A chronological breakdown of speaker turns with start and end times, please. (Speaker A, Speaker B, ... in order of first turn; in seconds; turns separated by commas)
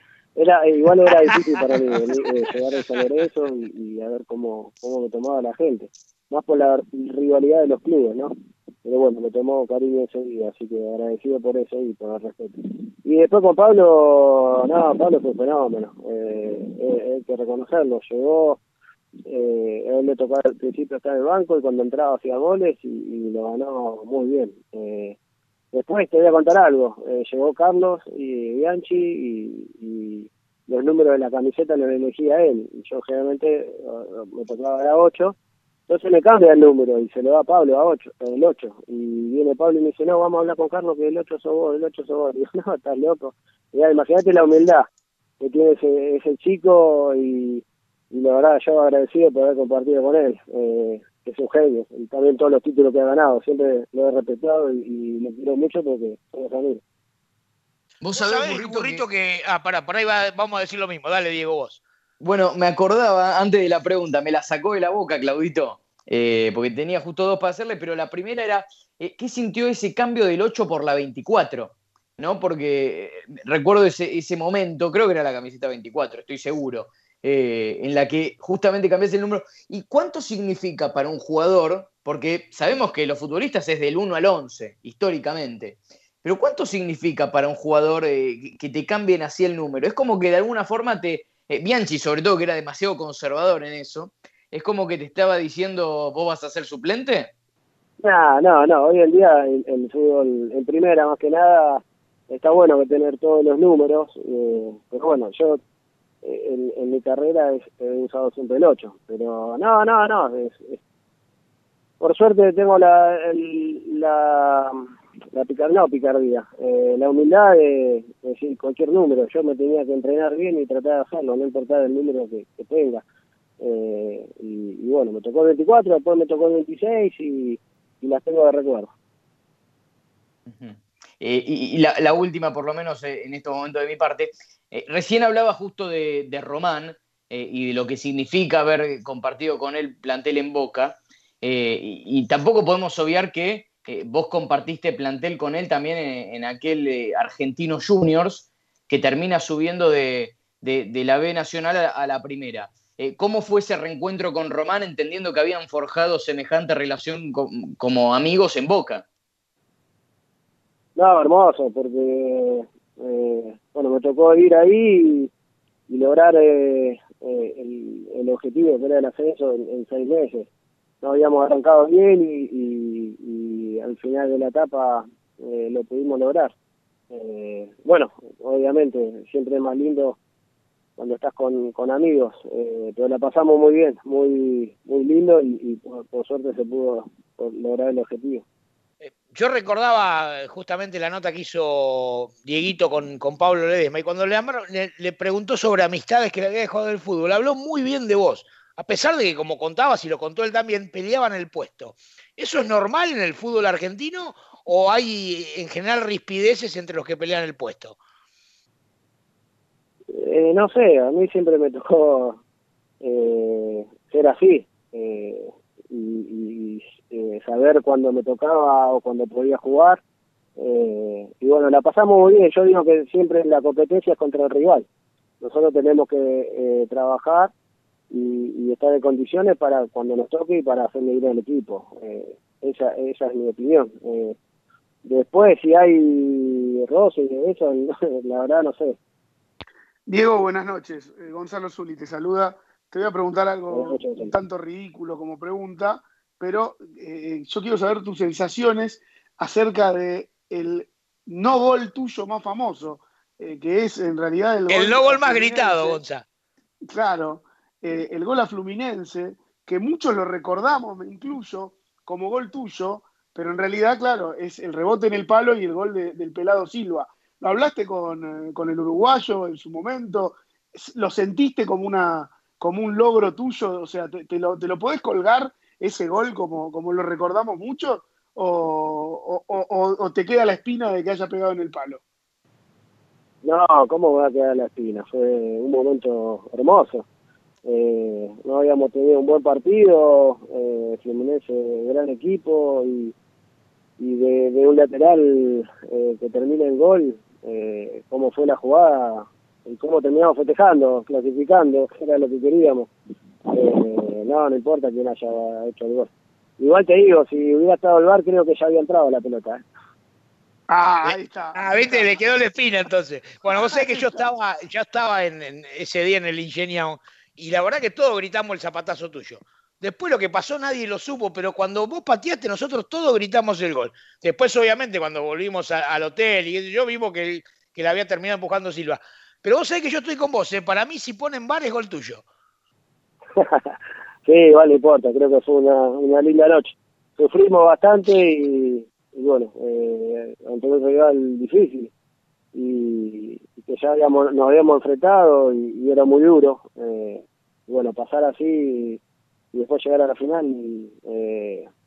Speaker A: 0.3-8.3, Speaker A: 8.8-18.6, Speaker A: 19.2-25.1, Speaker A: 25.7-35.3, Speaker A: 35.9-44.9, Speaker A: 45.4-56.8, Speaker B: 58.0-59.0, Speaker C: 58.1-61.8, Speaker B: 62.2-97.3, Speaker A: 98.0-105.6, Speaker A: 106.2-110.8, Speaker A: 112.0-123.0, Speaker A: 123.6-128.9, Speaker B: 130.5-159.0, Speaker A: 160.9-165.3, Speaker A: 165.9-170.5, Speaker A: 171.0-176.5, Speaker A: 177.1-180.2, Speaker A: 181.0-188.4, Speaker C: 189.0-208.0, Speaker A: 210.1-212.4, Speaker A: 213.0-220.0, Speaker A: 220.6-224.8, Speaker A: 225.4-227.5, Speaker A: 228.1-234.3, Speaker A: 235.0-239.0, Speaker D: 240.1-256.0, Speaker A: 243.7-244.3, Speaker C: 254.7-256.2, Speaker D: 256.9-282.0, Speaker A: 283.4-287.1, Speaker A: 287.6-293.1, Speaker A: 294.0-302.9, Speaker A: 303.5-309.6, Speaker D: 310.7-312.2, Speaker C: 311.0-332.2, Speaker D: 313.5-314.2, Speaker A: 333.4-333.7, Speaker A: 334.2-341.9, Speaker A: 342.5-349.0, Speaker A: 349.5-351.7